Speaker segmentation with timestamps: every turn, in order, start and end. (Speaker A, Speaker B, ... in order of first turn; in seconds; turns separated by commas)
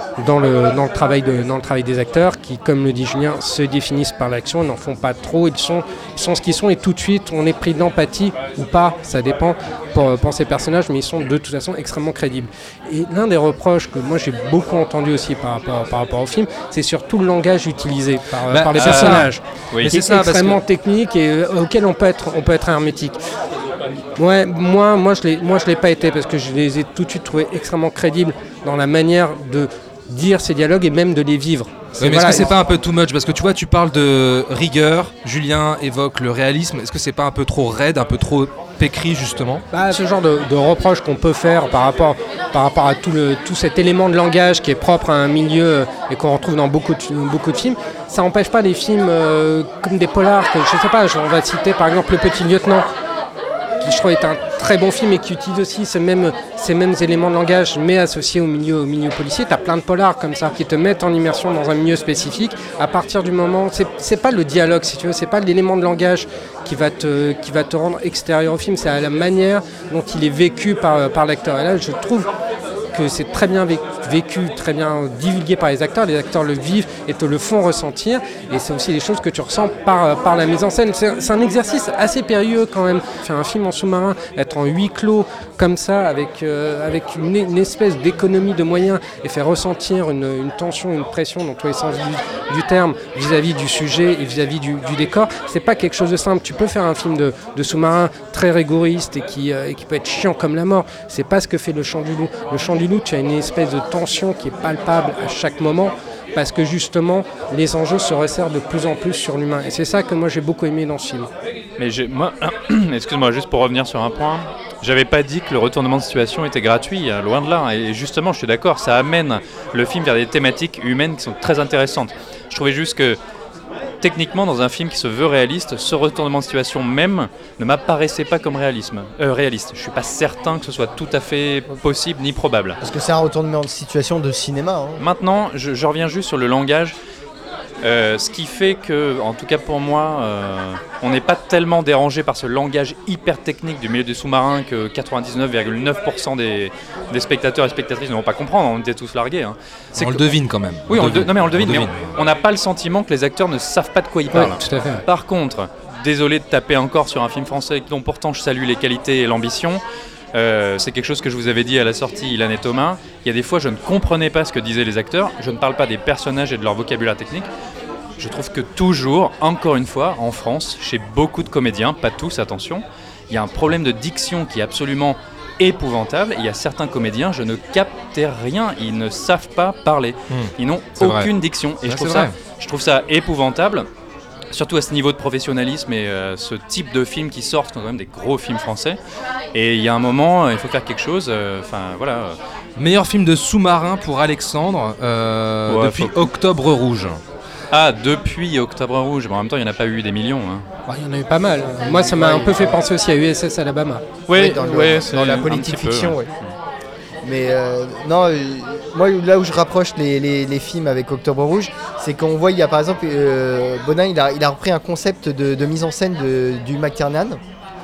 Speaker A: 0.2-23.2, Speaker B: 18.5-20.6, Speaker C: 18.8-19.9, Speaker A: 24.2-32.5, Speaker B: 32.0-39.6, Speaker A: 39.7-52.9, Speaker A: 53.8-72.3, Speaker A: 72.9-111.3, Speaker C: 111.8-123.2, Speaker C: 124.0-132.8, Speaker D: 132.8-135.0, Speaker C: 135.0-137.0, Speaker C: 137.8-150.3, Speaker B: 150.0-152.1, Speaker C: 150.9-159.8, Speaker A: 154.3-155.0, Speaker C: 160.3-167.5, Speaker C: 168.2-183.9, Speaker B: 180.3-181.3, Speaker B: 181.8-182.3, Speaker C: 184.5-189.0, Speaker C: 189.5-192.4, Speaker B: 192.8-197.2, Speaker C: 195.7-196.3, Speaker C: 197.7-200.7, Speaker A: 200.9-204.0, Speaker D: 201.8-202.8, Speaker C: 204.3-206.5, Speaker D: 204.3-206.3, Speaker D: 207.2-217.4